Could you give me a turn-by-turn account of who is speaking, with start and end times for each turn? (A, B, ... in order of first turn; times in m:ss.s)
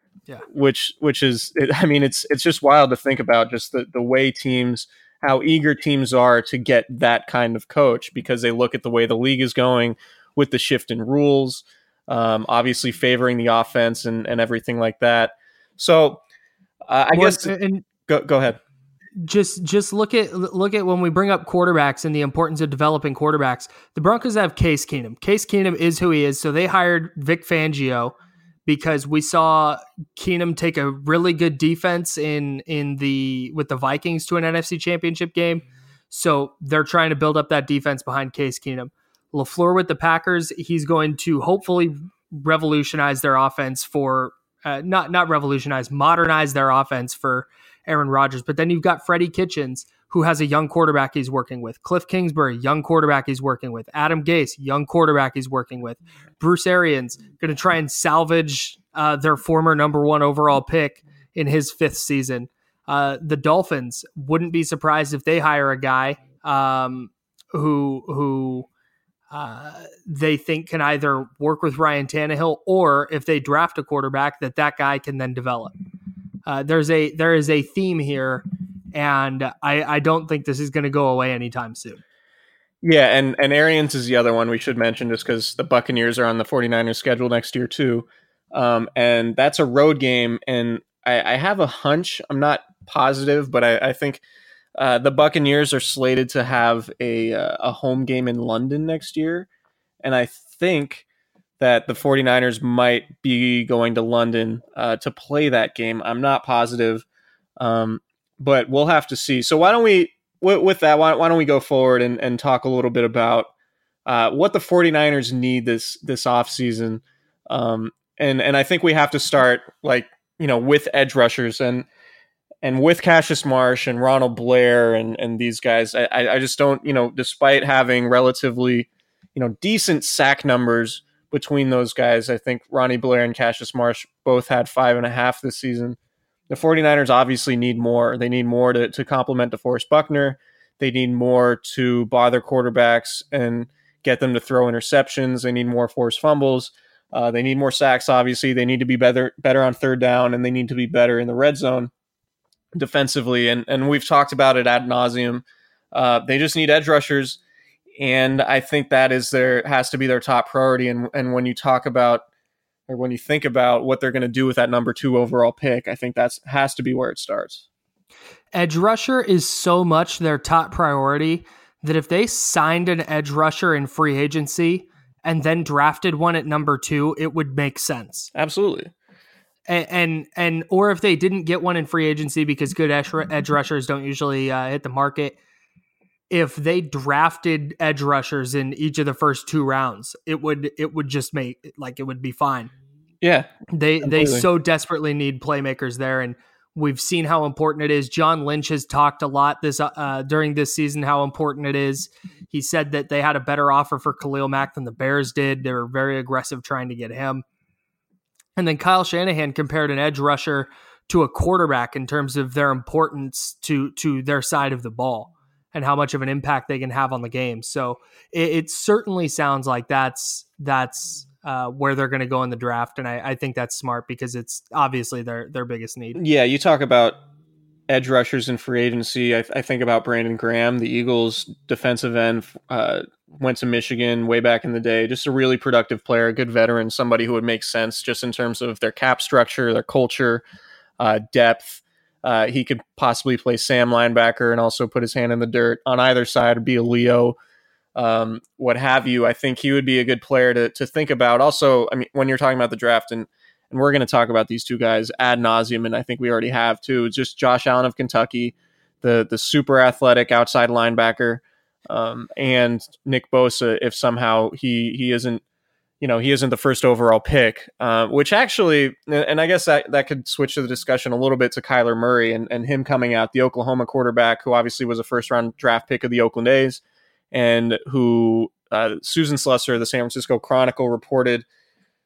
0:00.5-0:16.2 A
0:16.9-0:17.5 A
0:17.1-0:17.8 B
0:18.0-0:18.6 A
0:19.2-0:28.1 B
0:28.6-1:08.7 B
1:09.3-1:15.7 B
1:16.4-1:22.0 B
1:22.8-1:34.2 A
1:34.8-1:39.5 A
1:40.0-1:41.0 A
1:41.6-1:47.0 A
1:47.6-1:53.5 A
1:54.0-2:01.9 A
2:02.6-2:16.0 A
2:16.5-2:31.9 A
2:32.7-2:37.4 A
2:38.0-2:42.2 A
2:42.9-2:47.6 A
2:48.5-2:58.3 B
2:58.3-2:58.9 A
2:59.7-3:05.4 B
3:06.3-3:12.7 B
3:13.2-3:13.5 A
3:13.7-3:27.4 B
3:14.0-3:14.4 A
3:28.6-3:46.2 B
3:46.2-3:47.2 A
3:47.9-4:00.4 A
4:01.0-4:07.4 A
4:07.9-4:25.4 A
4:26.0-4:36.8 A
4:37.3-4:41.4 A